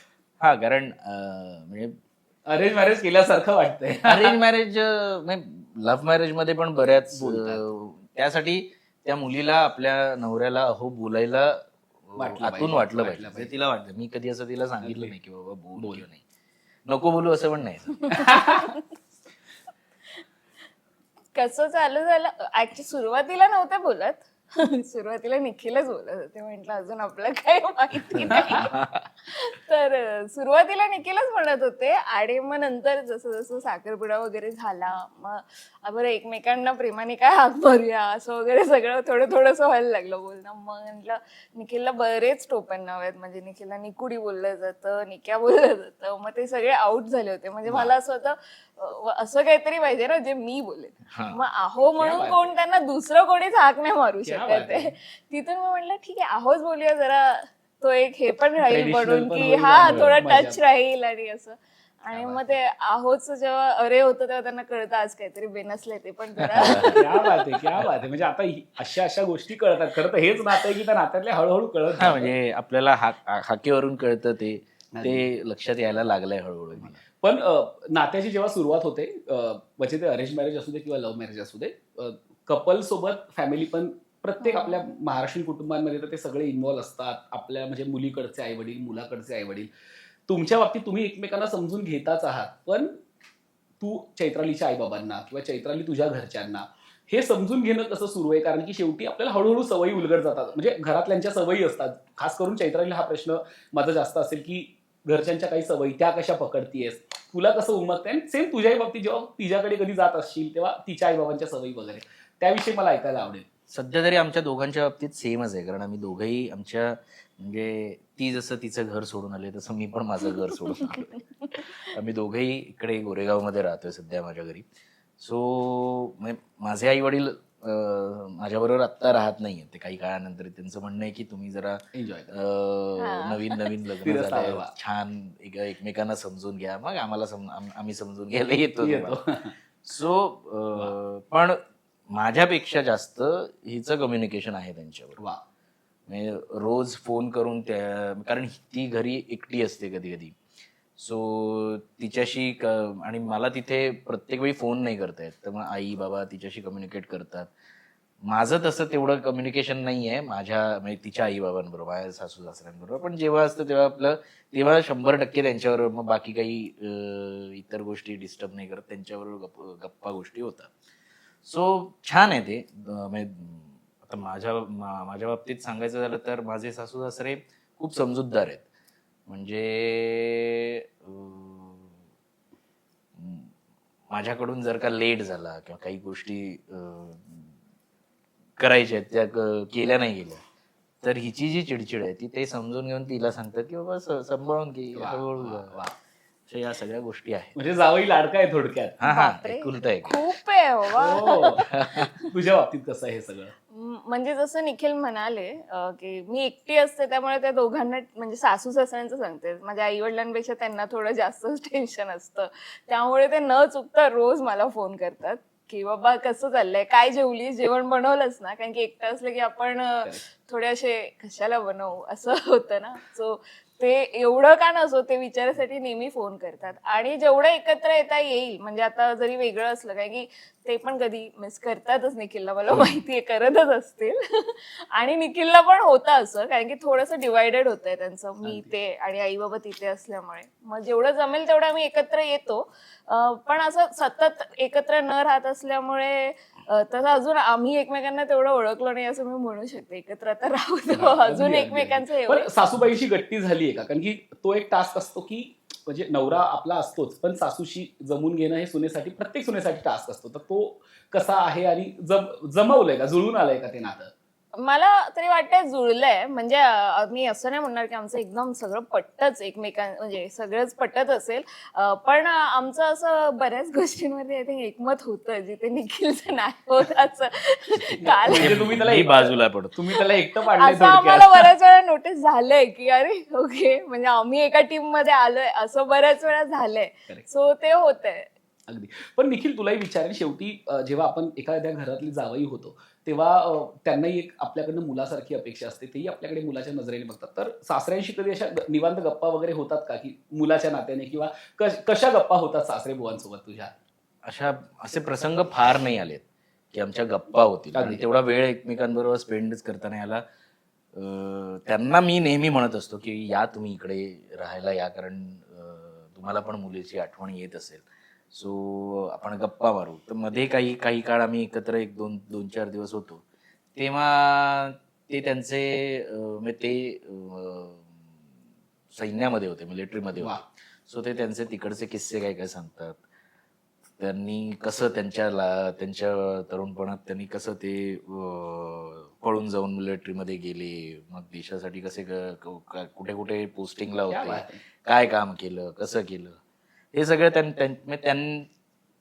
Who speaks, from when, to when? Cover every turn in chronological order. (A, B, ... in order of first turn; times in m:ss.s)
0:00.4-0:02.0 A
0:02.5-0:04.4 B
0:04.0-0:16.2 A
0:07.1-0:07.6 B
0:12.2-0:13.5 B
0:14.8-0:15.1 B
0:15.8-0:16.0 B
0:16.8-0:18.3 A
0:18.1-0:18.7 B
0:18.2-0:18.7 C
0:21.3-1:07.3 C
0:28.1-0:29.0 A
0:51.1-0:51.4 A
0:51.9-0:52.5 B
0:54.2-0:54.9 B
0:58.6-1:00.6 B
0:59.9-1:00.2 A
1:02.1-1:02.6 B
1:06.4-1:07.0 A
1:06.6-1:12.3 B
1:12.0-1:17.0 A
1:14.9-1:15.3 B
1:16.7-1:29.7 B
1:24.4-1:24.8 C
1:30.3-1:33.0 B
1:33.8-1:53.5 B
1:53.7-2:04.6 A
2:05.2-2:19.2 A
2:11.9-2:12.3 B
2:13.0-2:13.8 C
2:14.0-2:14.7 B
2:18.8-2:19.5 B
2:19.8-2:25.2 A
2:26.1-2:30.4 A
2:31.0-2:37.5 A
2:38.2-2:50.7 A
2:51.4-2:58.7 A
2:59.3-3:02.0 A
3:03.1-3:03.5 A
3:04.1-3:07.5 A
3:08.6-3:10.4 A
3:11.0-3:15.8 A
3:14.9-3:15.9 B
3:16.5-3:17.5 A
3:17.5-3:19.0 B
3:19.0-3:20.3 A
3:19.0-3:21.6 C
3:20.9-3:21.7 B
3:21.6-3:22.1 A
3:22.2-3:23.5 B
3:23.7-4:12.5 C
3:52.7-3:53.0 A
3:58.4-3:58.7 B
4:10.9-4:24.1 B
4:24.6-4:38.8 C
4:37.9-4:41.5 B
4:38.0-4:39.8 A
4:40.5-4:48.3 C
4:48.7-5:03.7 B
5:04.2-5:10.2 A
5:07.7-5:08.0 B
5:10.9-5:23.2 A
5:23.7-5:27.9 A
5:28.9-5:33.0 A
5:30.1-5:30.4 B
5:34.0-5:46.4 A
5:44.1-5:44.6 B
5:46.9-5:48.5 A